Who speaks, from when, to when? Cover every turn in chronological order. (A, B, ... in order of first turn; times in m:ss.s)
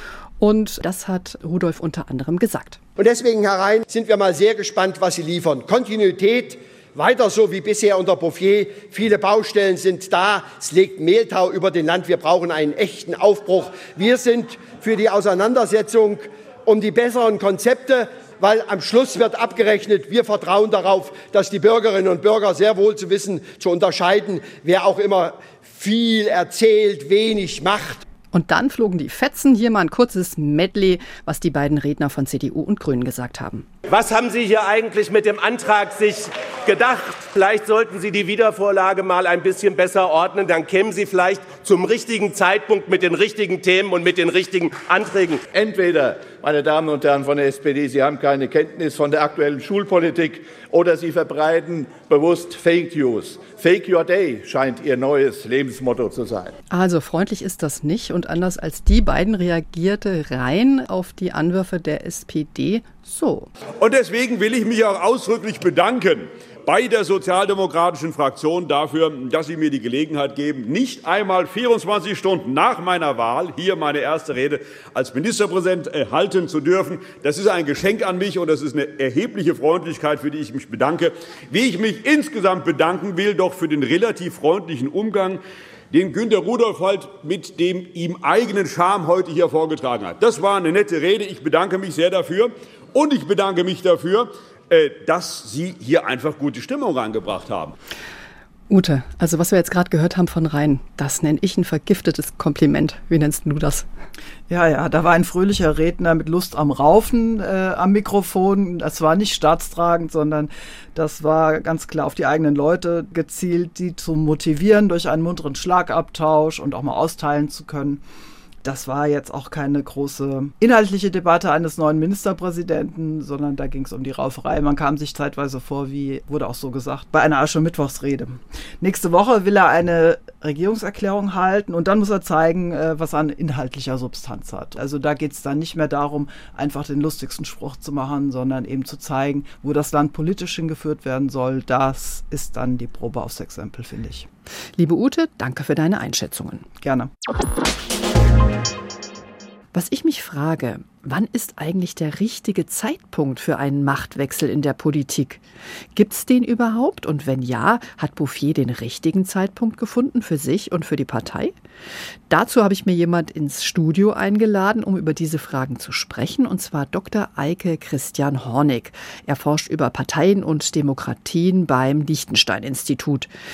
0:00.4-0:02.8 A
0:03.0-0:28.0 B
0:28.3-0:33.7 A
0:33.9-0:45.4 C
0:45.5-0:56.5 D
0:56.7-1:03.5 A
1:03.8-1:37.7 E
1:38.7-1:43.9 A
1:44.5-1:58.0 F
1:58.6-2:24.3 F
2:24.8-2:26.7 A
2:26.8-2:27.1 F
2:29.7-2:35.4 A
2:36.0-2:41.5 A
2:42.3-2:53.3 A